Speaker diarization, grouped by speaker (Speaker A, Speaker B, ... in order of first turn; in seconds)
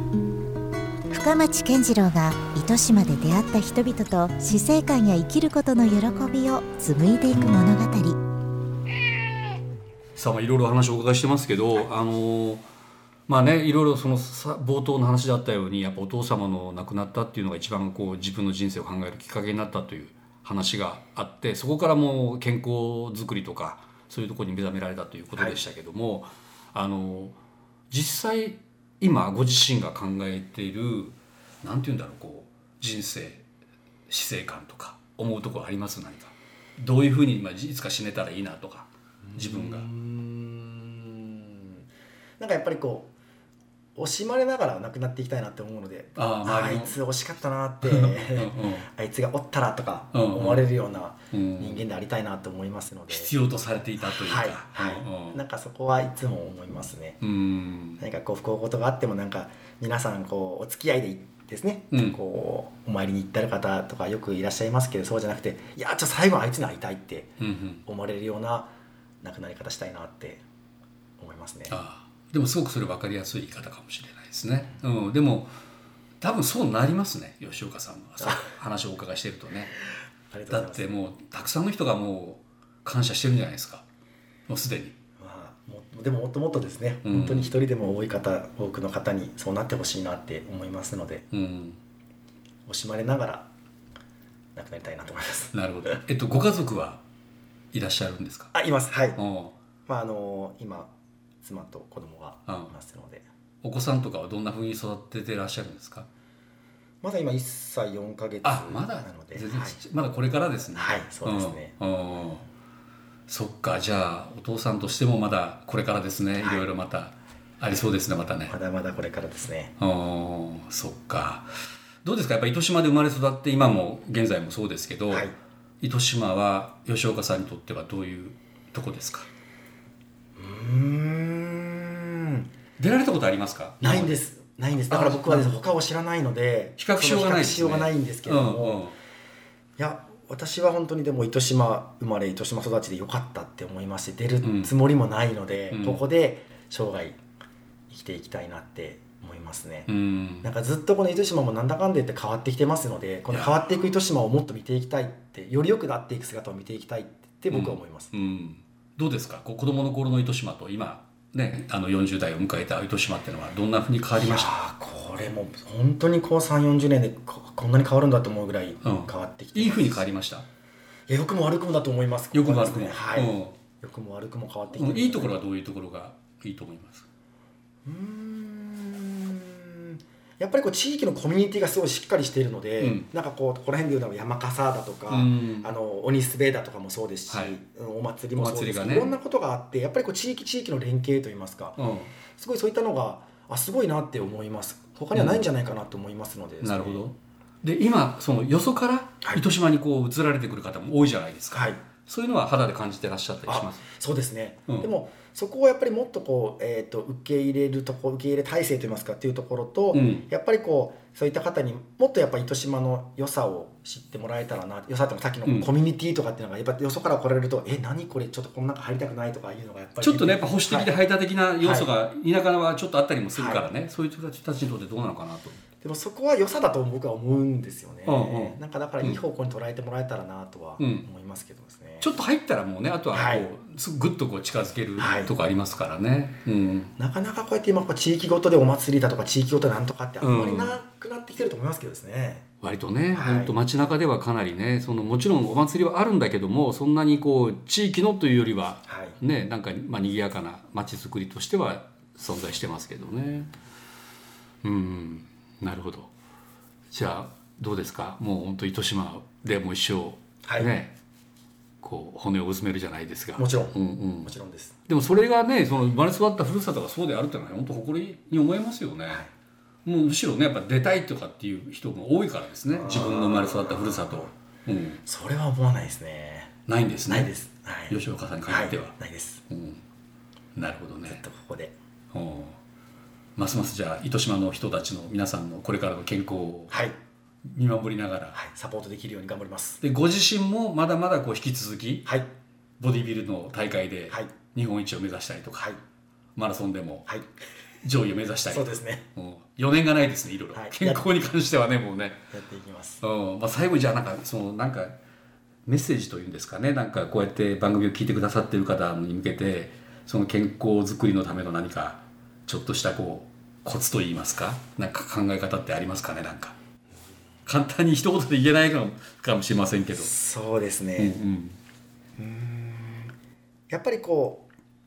Speaker A: 1.1-8.2
Speaker B: 10.2-12.6, 13.3-27.4, 27.9-33.4, 34.1-39.9, 46.1-47.0, 47.8-48.9, 50.1-50.7, 51.3-51.8, 53.1-55.4, 57.2-58.0, 61.9-62.2, 67.4-67.8, 71.7-75.5, 76.2-79.7, 80.5-83.8, 84.5-84.9, 87.0-87.5, 91.3-91.8, 95.5-97.0, 97.7-98.5, 99.2-99.5, 102.5-102.7, 103.6-106.1, 108.4-112.5, 113.3-118.5, 119.8-121.5, 122.0-129.3, 132.8-134.2, 134.9-135.6, 136.8-139.0, 144.4-144.7, 145.7-146.0, 149.9-150.5, 153.3-153.8, 157.5-164.5, 168.8-170.4, 172.3-173.6, 174.7-177.0, 182.8-183.1, 185.1-185.7, 187.3-187.6, 188.3-189.2, 191.8-192.1, 195.1-195.5, 196.6-203.8, 209.9-210.2, 215.4-215.7, 220.0-225.6, 228.1-229.2, 230.8-231.1, 232.0-236.9, 240.2-240.8, 242.6-253.5, 254.6-256.1, 256.9-260.9, 261.8-264.3, 264.9-269.3, 269.8-275.0, 276.7-277.3, 277.9-278.9, 279.5-279.8, 280.6-281.2, 282.1-282.6, 283.4-286.9, 287.5-288.4, 289.8-292.2, 292.8-295.8, 296.4-297.2, 297.8-302.2, 303.0-304.9, 305.6-316.5, 317.4-320.1, 321.0-321.6
Speaker C: 39.3-41.9, 42.4-43.1, 44.0-53.3, 54.0-57.2, 58.0-67.3, 67.8-70.4, 71.2-71.8, 78.2-78.5, 80.3-80.9, 85.2-91.3, 92.7-93.5, 94.5-95.5, 98.5-99.2, 99.9-103.2, 107.0-109.8, 110.7-111.8, 118.5-119.7, 125.1-125.3, 130.3-132.5, 133.8-138.8, 139.8-147.2, 147.9-149.9, 150.4-158.1, 164.2-170.1, 171.1-175.4, 177.8-191.8, 192.3-197.0, 201.5-201.8, 203.4-220.9, 221.6-221.9, 223.3-223.7, 225.8-232.1, 233.1-233.5, 235.0-235.3, 237.0-242.4, 243.1-243.5, 248.9-249.2, 260.4-260.7, 263.4-264.7, 272.8-274.3, 275.0-276.5, 277.1-279.4, 281.1-281.7, 286.7-286.9, 288.3-289.8, 292.0-292.3, 298.5-299.0, 300.5-301.1, 302.3-303.0, 319.9-321.2, 322.2-323.1, 323.7-324.4